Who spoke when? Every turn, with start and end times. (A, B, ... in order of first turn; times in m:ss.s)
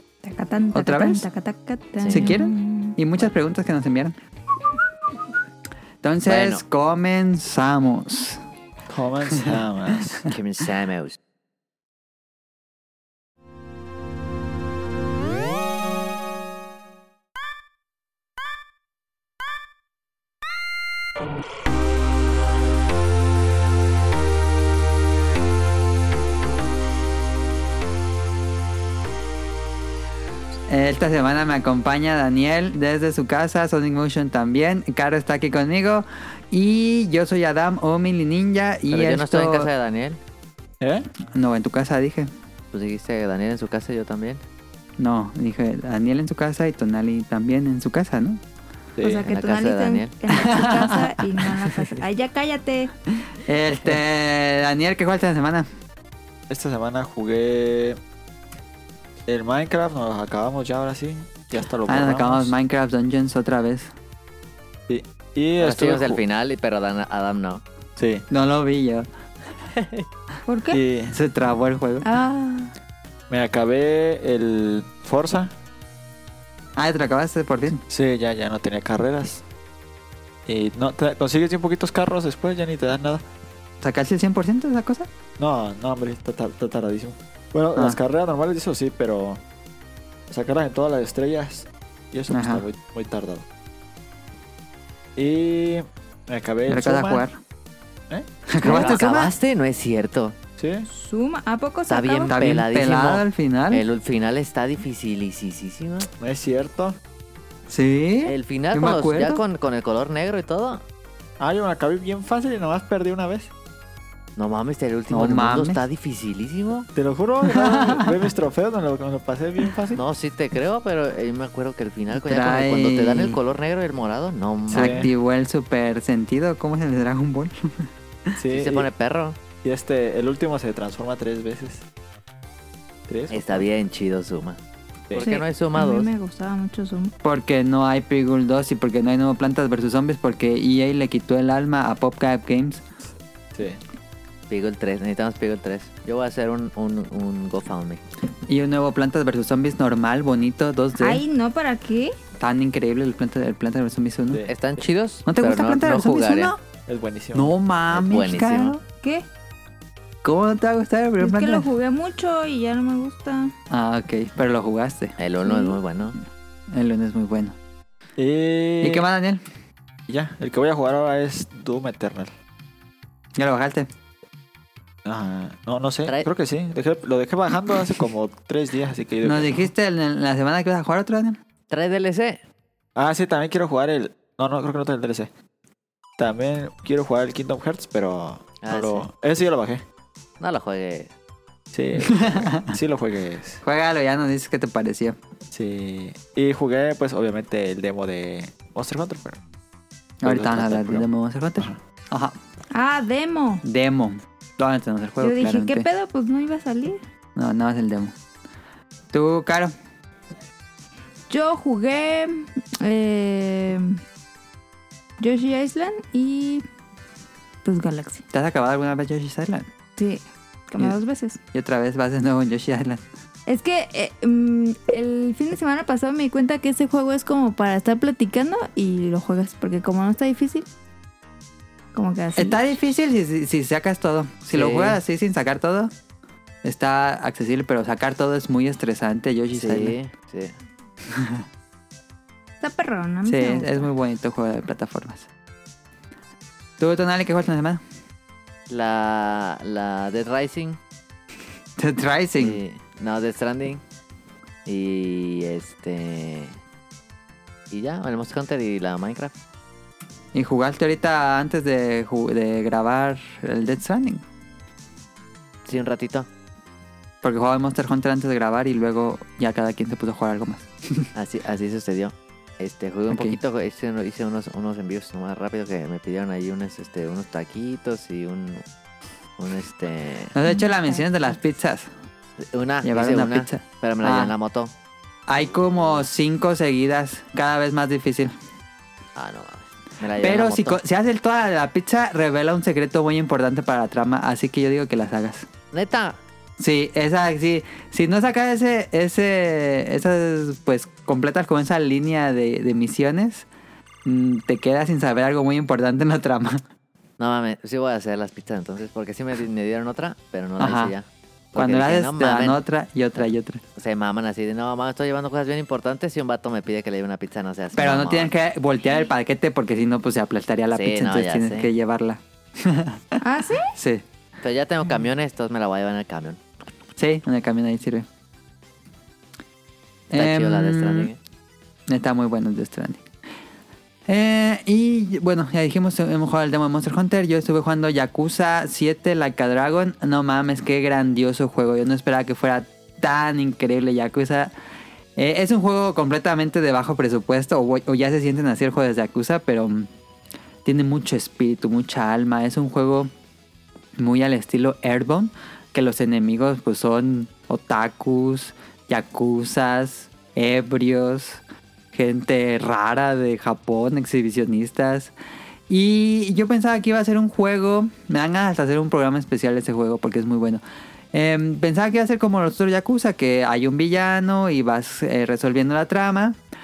0:00.2-0:03.0 A
0:00.7-0:01.2 B
0:02.0-0:02.4 C
0:02.1-0:04.2 B
0:06.0-0:08.4 B
0:06.2-0:06.6 C
0:08.9-0:10.3 D
0:10.3-0:11.2 C
0:30.7-0:39.7 B
0:38.9-0:40.2 C
0:40.8-0:41.1 D
0:41.3-0:42.3 B
0:42.7-0:44.4 C
0:45.0-0:48.4 B
0:49.0-0:49.3 D
0:49.0-0:52.9 A
0:49.2-0:50.1 C
0:50.3-0:52.0 B
0:53.4-0:55.7 B
0:56.5-0:58.0 D
0:59.3-1:02.5 D
1:01.9-1:03.9 B
1:04.9-1:06.2 D
1:05.6-1:07.6 C
1:08.0-1:08.3 D
1:08.3-1:09.0 B
1:09.8-1:10.0 C
1:10.5-1:10.8 A
1:10.7-1:11.2 D
1:11.1-1:12.0 B
1:12.0-1:12.7 A
1:13.3-1:15.5 D
1:16.8-1:17.8 B
1:17.9-1:19.4 D
1:20.4-1:23.2 D
1:23.8-1:25.1 B
1:25.4-1:29.4 D
1:30.3-1:33.4 D
1:32.3-1:32.6 B
1:35.2-1:37.2 D
1:36.7-1:37.4 B
1:38.5-1:39.3 B
1:38.6-1:40.4 C
1:38.7-1:39.0 A
1:40.6-1:40.9 D
1:40.9-1:42.4 A
1:41.9-1:46.1 C
1:42.3-1:43.8 B
1:46.2-1:47.0 D
1:47.7-1:49.4 B
1:48.2-1:50.8 C
1:51.4-1:53.5 D
1:54.4-1:56.9 C
1:55.1-1:55.8 B
1:56.9-2:00.0 D
1:57.4-1:58.2 B
1:59.9-2:05.1 C
2:02.2-2:03.4 B
2:04.7-2:05.1 D
2:04.7-2:08.3 B
2:08.4-2:08.9 D
2:08.5-2:09.4 C
2:09.6-2:11.8 D
2:13.1-2:13.6 D
2:13.3-2:14.6 C
2:15.1-2:16.1 C
2:15.2-2:17.1 A
2:17.2-2:22.8 B
2:23.5-2:23.8 D
2:24.5-2:28.0 C
2:28.5-2:31.2 B
2:31.0-2:32.1 A
2:32.4-2:34.4 B
2:34.5-2:36.5 C
2:35.2-2:36.6 B
2:36.9-2:37.6 D
2:37.3-2:38.8 B
2:37.9-2:38.8 C
2:40.2-2:41.7 B
2:41.2-2:43.5 A
2:43.7-2:45.2 B
2:45.2-2:46.2 C
2:45.4-2:45.8 A
2:46.7-2:47.6 B
2:48.2-2:49.1 D
2:48.8-2:49.4 B
2:50.1-2:52.3 D
2:53.4-2:53.9 B
2:55.0-2:59.7 D
2:56.0-2:56.3 C
2:59.2-3:01.4 B
3:01.7-3:02.4 C
3:03.0-3:05.3 D
3:06.2-3:09.8 D
3:08.6-3:09.1 C
3:10.4-3:11.1 C
3:11.7-3:13.6 D
3:12.1-3:12.7 B
3:13.6-3:15.2 B
3:15.5-3:19.4 D
3:20.2-3:22.3 B
3:20.2-3:21.1 D
3:22.7-3:23.6 A
3:23.6-3:25.8 B
3:25.2-3:27.0 A
3:27.4-3:28.1 B
3:29.1-3:29.7 B
3:31.3-3:34.0 A
3:35.2-3:36.6 A
3:37.6-3:38.2 A
3:38.3-3:39.7 B
3:40.0-3:41.4 A
3:41.5-3:43.0 B
3:43.5-3:50.7 A
3:51.9-3:52.6 A
3:52.4-3:55.9 B
3:54.5-3:55.0 C
3:56.6-4:00.0 B
3:59.5-4:00.5 C
4:01.1-4:01.4 B
4:02.6-4:03.9 A
4:03.2-4:05.3 B
4:06.8-4:07.8 B
4:08.7-4:10.8 C
4:11.8-4:12.6 B
4:12.4-4:13.8 C
4:14.6-4:16.6 C
4:17.7-4:19.3 C
4:20.3-4:24.2 B
4:25.6-4:26.3 C
4:27.2-4:31.1 B
4:31.1-4:38.6 C
4:33.1-4:33.4 B
4:39.4-4:40.3 C
4:40.3-4:41.9 B
4:40.4-4:41.0 A
4:42.4-4:44.7 C
4:42.8-4:44.3 B
4:45.3-4:48.3 B
4:49.2-4:50.8 C
4:50.2-4:55.5 B
4:55.7-4:56.2 C
4:56.6-5:03.5 B
5:04.0-5:06.6 B
5:07.2-5:12.6 C
5:10.6-5:10.9 B
5:11.5-5:13.6 B
5:13.2-5:18.3 C
5:17.8-5:23.2 B
5:20.7-5:21.7 C
5:23.2-5:23.7 A
5:23.7-5:24.0 B
5:24.4-5:26.4 C
5:27.0-5:28.0 B
5:30.1-5:31.2 C
5:30.1-5:31.1 B
5:31.9-5:33.0 B
5:34.1-5:44.5 B
5:45.2-5:49.9 B
5:50.6-5:53.1 B
5:54.0-6:05.1 B
6:05.7-6:10.6 B
6:11.1-6:16.4 B